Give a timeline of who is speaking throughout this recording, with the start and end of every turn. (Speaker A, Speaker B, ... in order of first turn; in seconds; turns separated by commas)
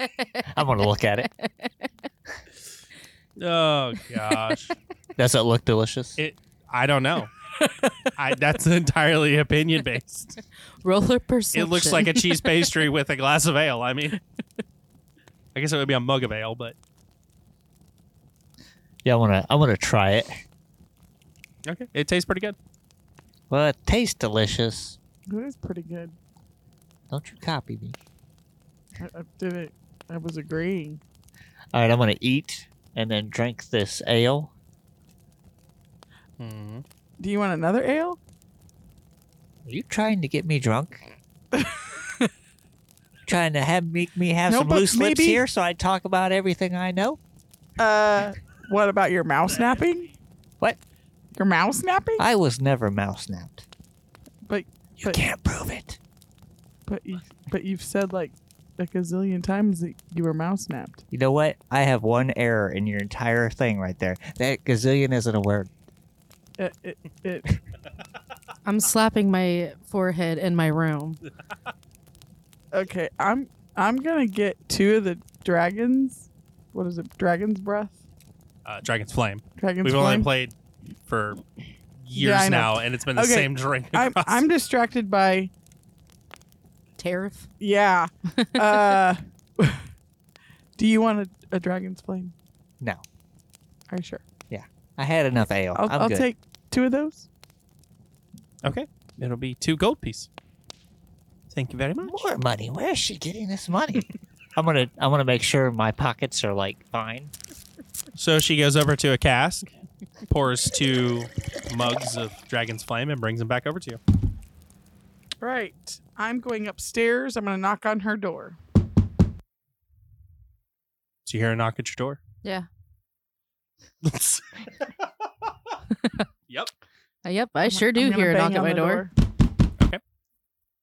Speaker A: 0.5-1.3, Speaker B: 1.4-1.7, Speaker C: 3.4-4.7, Speaker A: 5.2-6.2, Speaker C: 6.2-7.3, Speaker C: 8.1-10.4, Speaker B: 10.8-12.2, Speaker C: 11.5-14.2, Speaker C: 15.5-16.8, Speaker A: 19.0-20.4, Speaker C: 21.6-22.6, Speaker A: 23.5-25.0, Speaker D: 25.3-26.1, Speaker A: 27.1-28.0, Speaker D: 29.0-31.0, Speaker A: 31.7-34.5, Speaker C: 36.4-36.8, Speaker D: 37.2-38.2, Speaker A: 39.6-41.1, Speaker D: 41.5-42.3, Speaker A: 43.2-47.2, Speaker D: 44.5-45.4, Speaker D: 47.8-50.1, Speaker D: 51.3-52.2, Speaker A: 52.2-53.6, Speaker D: 54.5-55.2, Speaker A: 55.0-56.0, Speaker D: 56.9-61.0, Speaker A: 61.1-65.7, Speaker D: 66.6-67.6, Speaker B: 68.6-71.2, Speaker D: 72.7-78.0, Speaker C: 78.6-80.5, Speaker D: 79.6-80.3, Speaker C: 81.1-81.4, Speaker C: 82.0-84.4, Speaker D: 82.1-85.5, Speaker B: 87.0-87.5, Speaker D: 87.6-89.8, Speaker D: 90.8-92.3, Speaker D: 93.9-94.2, Speaker A: 94.5-96.3, Speaker D: 95.7-97.2, Speaker C: 98.6-100.3, Speaker C: 101.5-102.2, Speaker A: 102.0-107.3, Speaker C: 108.2-109.7, Speaker C: 110.2-114.0, Speaker D: 115.4-118.6, Speaker C: 121.2-122.2, Speaker C: 124.0-124.9, Speaker B: 127.2-129.1, Speaker D: 127.7-129.1